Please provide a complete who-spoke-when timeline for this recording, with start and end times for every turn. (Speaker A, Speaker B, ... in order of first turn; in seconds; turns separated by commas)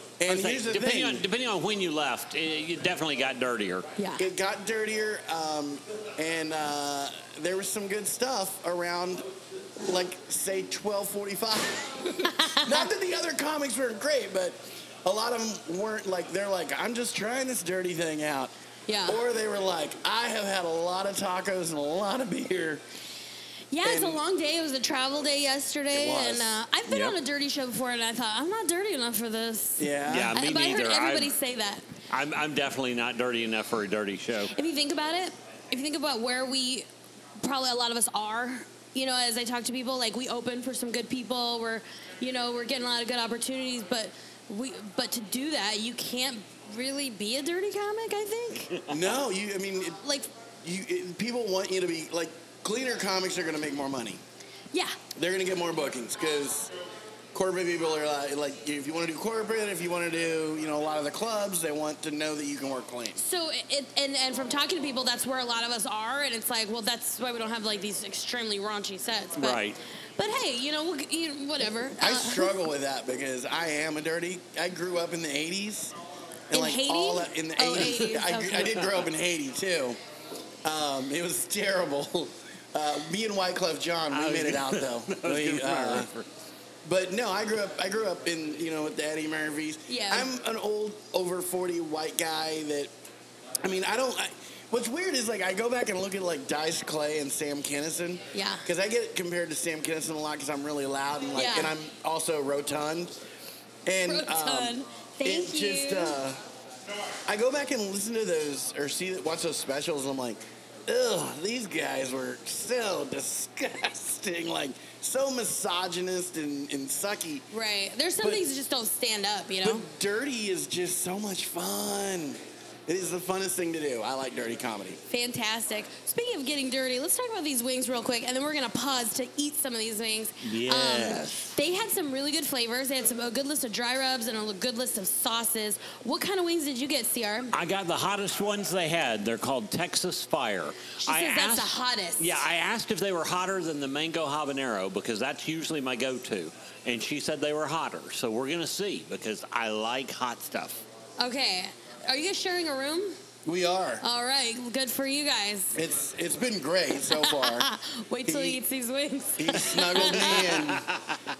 Speaker A: 0.2-1.2, Speaker B: 0.3-3.9, Speaker C: 4.0-4.3, Speaker A: 4.2-9.2, Speaker A: 9.8-18.5, Speaker C: 12.3-12.9, Speaker C: 18.9-19.2, Speaker A: 19.1-22.8, Speaker C: 23.7-31.8, Speaker A: 23.8-24.2, Speaker A: 25.9-26.5, Speaker B: 26.9-27.1, Speaker A: 29.8-30.4, Speaker B: 30.1-31.3, Speaker B: 32.1-34.5, Speaker C: 34.5-36.9, Speaker C: 37.4-48.9, Speaker A: 48.9-50.0, Speaker C: 50.0-50.3, Speaker A: 50.6-54.2, Speaker C: 54.7-55.0, Speaker A: 55.1-56.7, Speaker A: 57.3-63.2, Speaker C: 63.2-69.6, Speaker B: 69.4-69.8, Speaker C: 70.2-72.5, Speaker A: 72.0-75.9, Speaker A: 76.5-80.0, Speaker C: 76.5-78.8, Speaker A: 80.6-86.1, Speaker B: 84.1-86.3, Speaker A: 86.8-92.9, Speaker C: 89.9-90.3, Speaker A: 93.6-103.2, Speaker C: 98.3-98.6, Speaker C: 101.3-101.7, Speaker A: 103.8-106.4, Speaker C: 104.0-106.2, Speaker A: 107.2-117.5, Speaker C: 117.5-119.8, Speaker A: 119.6-125.0, Speaker C: 125.1-137.5, Speaker B: 130.4-131.5, Speaker B: 137.5-150.8, Speaker C: 141.0-142.4, Speaker C: 151.2-153.2, Speaker A: 153.4-154.0, Speaker C: 154.0-155.8, Speaker A: 155.7-157.7, Speaker C: 157.1-160.6, Speaker A: 158.3-158.6, Speaker A: 159.4-160.9, Speaker B: 160.1-161.2